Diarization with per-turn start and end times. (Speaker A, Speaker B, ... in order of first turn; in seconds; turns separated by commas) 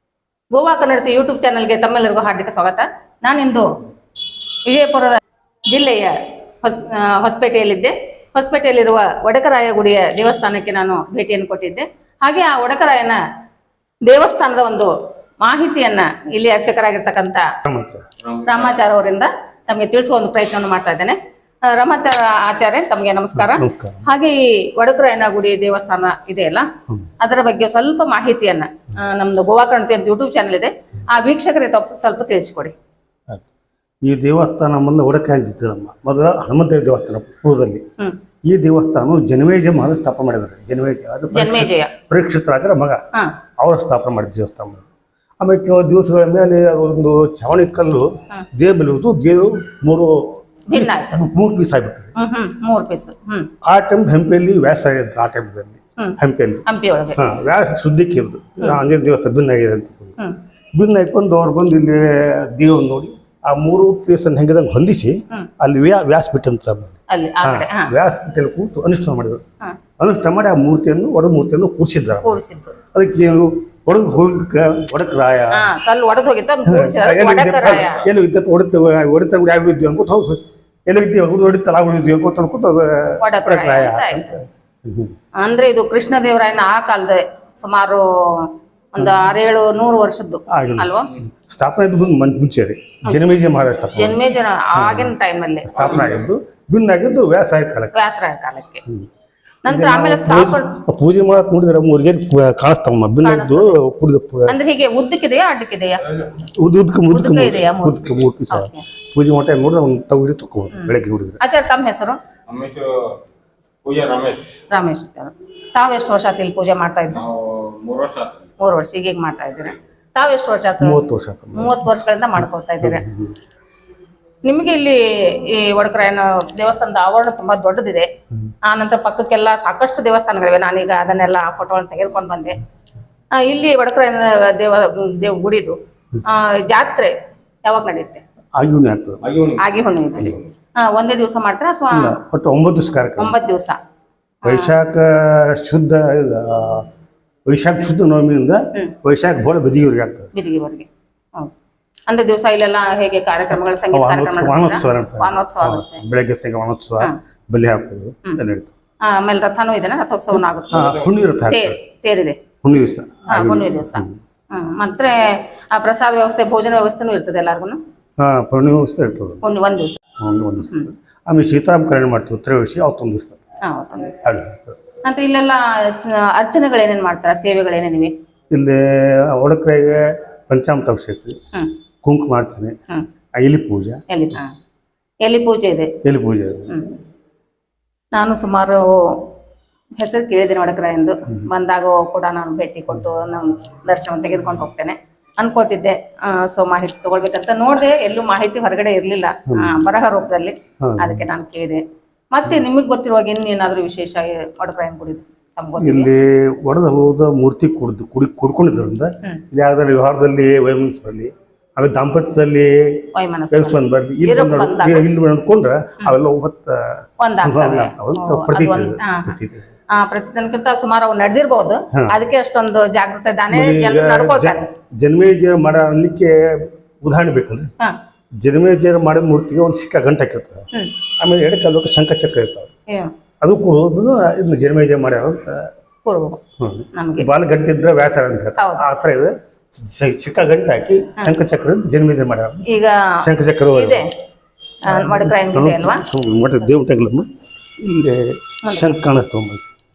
Speaker A: 0.5-3.7, Speaker A: 4.7-13.2, Speaker A: 14.1-17.5, Speaker B: 17.6-18.1, Speaker C: 18.2-18.8, Speaker A: 18.5-26.7, Speaker B: 23.4-24.1, Speaker A: 27.2-32.8, Speaker B: 34.0-37.8, Speaker B: 38.5-43.0, Speaker A: 41.3-41.9, Speaker B: 43.6-44.9, Speaker B: 45.4-52.1, Speaker A: 50.7-51.2, Speaker A: 52.2-53.5, Speaker B: 53.6-56.6, Speaker A: 56.0-57.2, Speaker B: 57.2-60.2, Speaker B: 60.8-69.4, Speaker A: 67.1-67.9, Speaker B: 70.0-72.4, Speaker A: 72.2-72.8, Speaker B: 72.9-75.7, Speaker A: 75.5-78.0, Speaker B: 76.7-85.1, Speaker A: 83.2-84.3, Speaker A: 85.4-91.1, Speaker B: 89.0-89.2, Speaker B: 90.5-94.2, Speaker A: 94.0-96.1, Speaker B: 94.8-95.1, Speaker B: 95.7-97.9, Speaker C: 95.8-96.3, Speaker A: 97.9-98.8, Speaker A: 99.7-100.7, Speaker B: 99.7-104.5, Speaker A: 103.2-103.8, Speaker A: 104.5-106.1, Speaker C: 106.1-106.4, Speaker B: 106.5-111.4, Speaker A: 107.1-108.8, Speaker A: 110.7-112.2, Speaker C: 112.5-113.2, Speaker C: 113.8-114.5, Speaker A: 114.7-117.2, Speaker C: 117.1-118.5, Speaker A: 118.6-121.0, Speaker B: 120.8-121.9, Speaker A: 121.5-123.0, Speaker B: 122.8-123.3, Speaker A: 124.4-128.1, Speaker A: 128.6-132.6, Speaker A: 133.3-137.1, Speaker A: 137.7-138.2, Speaker B: 138.6-139.2, Speaker C: 139.2-140.5, Speaker A: 139.6-142.2, Speaker B: 141.9-143.3, Speaker A: 143.2-143.8, Speaker A: 144.4-144.8, Speaker B: 144.4-146.9, Speaker B: 147.5-150.3, Speaker A: 150.3-151.5, Speaker A: 152.1-156.0, Speaker B: 153.9-158.8, Speaker A: 159.0-162.4, Speaker B: 160.3-161.8, Speaker C: 160.7-161.0, Speaker B: 162.6-164.2, Speaker A: 163.3-167.8, Speaker B: 168.2-169.4, Speaker A: 169.4-170.0, Speaker B: 170.2-173.4, Speaker A: 170.6-170.9, Speaker A: 173.6-174.2, Speaker B: 174.2-174.8, Speaker A: 175.0-178.1, Speaker B: 178.5-181.4, Speaker B: 182.0-182.8, Speaker B: 183.4-184.0, Speaker A: 184.1-184.5, Speaker A: 185.2-185.9, Speaker B: 186.0-186.7, Speaker A: 186.7-187.0, Speaker A: 188.1-189.3, Speaker A: 190.0-206.1, Speaker B: 199.5-199.8, Speaker B: 200.8-201.3, Speaker B: 205.8-213.0, Speaker A: 213.1-215.1, Speaker B: 213.5-219.7, Speaker A: 217.2-219.4, Speaker A: 219.9-224.7, Speaker B: 223.5-227.7, Speaker B: 228.4-230.7, Speaker B: 231.2-232.7, Speaker B: 233.4-235.7, Speaker A: 236.1-236.4, Speaker B: 236.6-242.7, Speaker A: 236.9-237.3, Speaker A: 238.6-238.8, Speaker A: 242.7-244.1, Speaker B: 243.2-244.0, Speaker A: 244.8-246.0, Speaker B: 244.9-249.6, Speaker A: 248.6-248.9